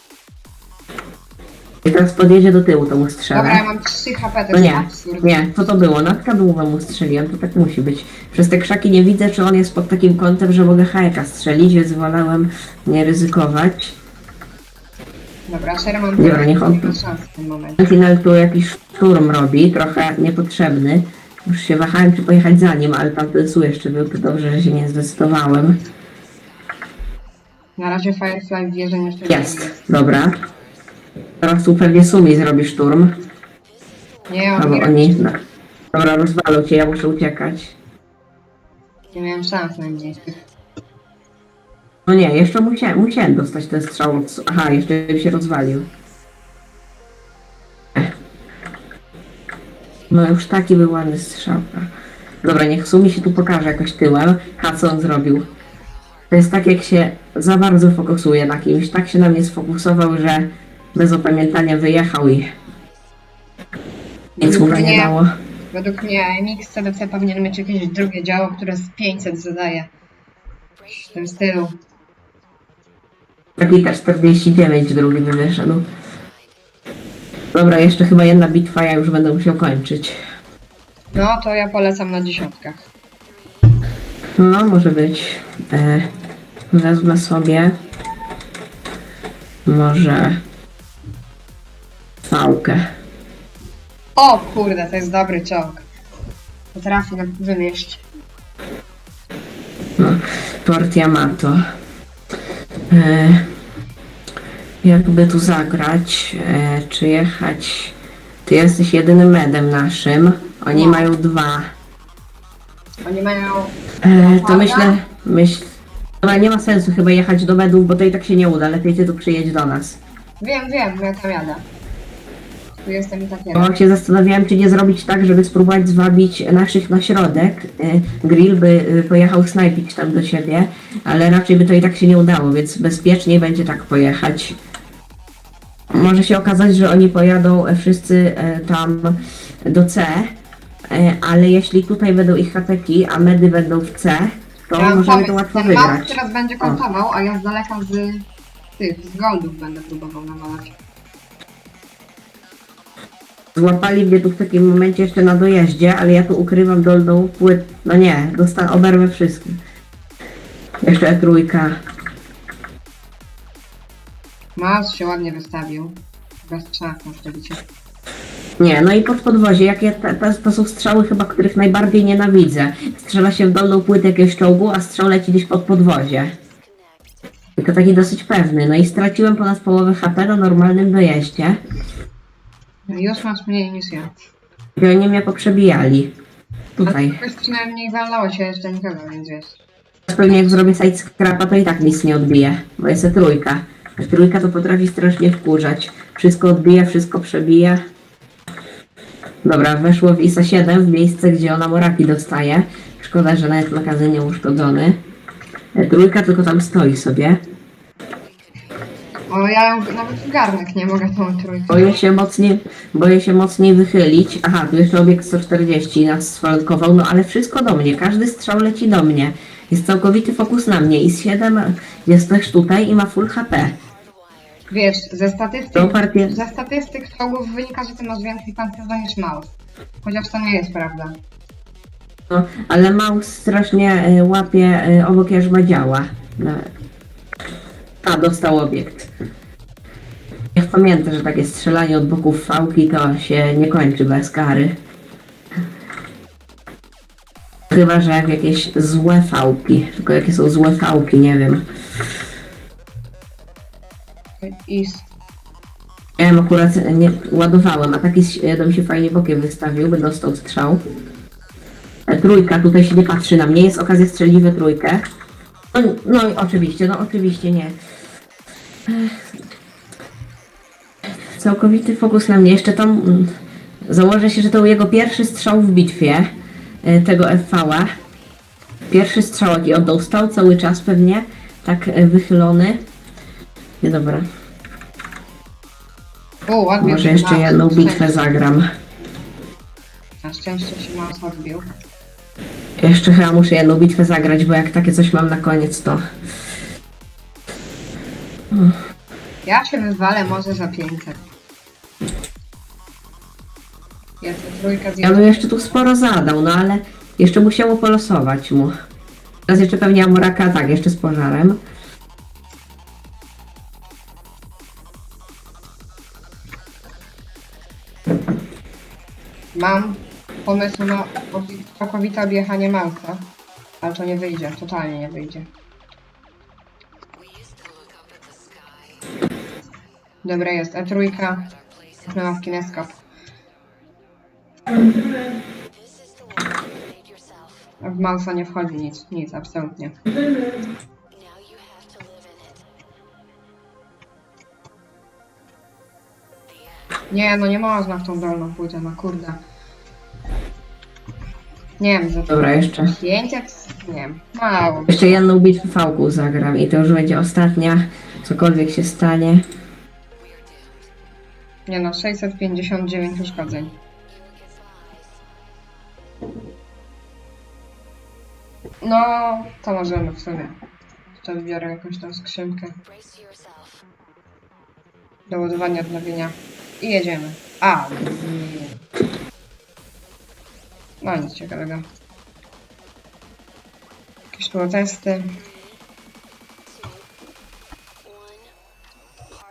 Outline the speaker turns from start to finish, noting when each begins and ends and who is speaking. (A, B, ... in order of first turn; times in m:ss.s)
0:01.8-0:03.6 A
0:03.3-0:05.8 B
0:04.5-0:14.0 A
0:15.5-0:17.9 B
0:16.2-0:17.0 A
0:17.8-0:25.8 A
0:27.8-0:29.8 B
0:29.3-0:30.4 A
0:31.4-0:33.1 A
0:34.3-0:35.2 B
0:34.6-0:35.4 A
0:35.9-0:37.8 A
0:39.1-0:40.4 B
0:42.1-0:45.9 A
0:50.1-0:51.9 A
0:52.4-0:55.5 A
0:56.3-1:02.5 A
1:04.4-1:05.2 B
1:04.4-1:05.3 A
1:05.7-1:09.9 B
1:10.9-1:11.8 B
1:13.6-1:15.9 A
1:17.5-1:20.2 A
1:21.1-1:22.8 B
1:24.4-1:26.1 A
1:26.7-1:27.8 A
1:29.7-1:30.4 A
1:32.3-1:32.8 A
1:34.2-1:35.8 B
1:36.7-1:38.0 B
1:40.0-1:41.6 A
1:42.9-1:43.5 A
1:44.8-1:48.0 A
1:48.5-1:51.7 A
1:50.7-1:51.1 B
1:53.0-1:55.0 B
1:54.0-1:55.7 A
1:56.2-2:00.0 A
2:00.4-2:01.6 B
2:02.8-2:03.7 B
2:03.6-2:14.6 A
2:15.9-2:20.3 A
2:20.9-2:26.8 A
2:24.8-2:28.3 B
2:28.8-2:30.8 B
2:33.6-2:39.6 A
2:40.8-2:41.8 A
2:44.6-2:47.6 B
2:48.6-2:56.3 A
2:57.6-3:01.6 A
3:02.9-3:04.2 B
3:04.8-3:06.1 A
3:06.8-3:07.2 A
3:06.8-3:09.6 B
3:10.1-3:17.8 A
3:19.4-3:25.0 A
3:25.8-3:27.4 A
3:29.1-3:31.9 B
3:31.7-3:43.8 A
3:44.7-3:51.2 B
3:45.8-3:46.4 A
3:52.3-3:56.7 A
3:58.0-3:59.1 A
4:00.6-4:04.8 A
4:07.7-4:11.6 A
4:14.4-4:15.0 B
4:16.2-4:20.8 A
4:22.1-4:25.0 A
4:25.7-4:27.8 A
4:28.9-4:29.3 A
4:31.3-4:37.9 A
4:38.9-4:42.8 A
4:43.8-4:44.3 A
4:46.5-4:48.2 B
4:46.8-4:48.7 A
4:50.2-4:51.7 B
4:52.8-4:56.0 A
4:58.5-4:58.8 A
4:59.4-5:01.3 B
5:04.2-5:05.8 B
5:05.0-5:08.7 A
5:09.5-5:11.6 A
5:19.6-5:25.5 B
5:30.2-5:31.6 B
5:32.1-5:33.0 B
5:37.8-5:40.0 B
5:47.1-5:49.4 B
5:51.8-5:55.2 B
5:52.3-5:52.9 A
5:54.9-5:59.4 A
6:01.7-6:03.8 B
6:08.8-6:10.6 B
6:11.1-6:12.8 B
6:15.3-6:18.9 B
6:21.0-6:21.8 B
6:24.3-6:25.4 B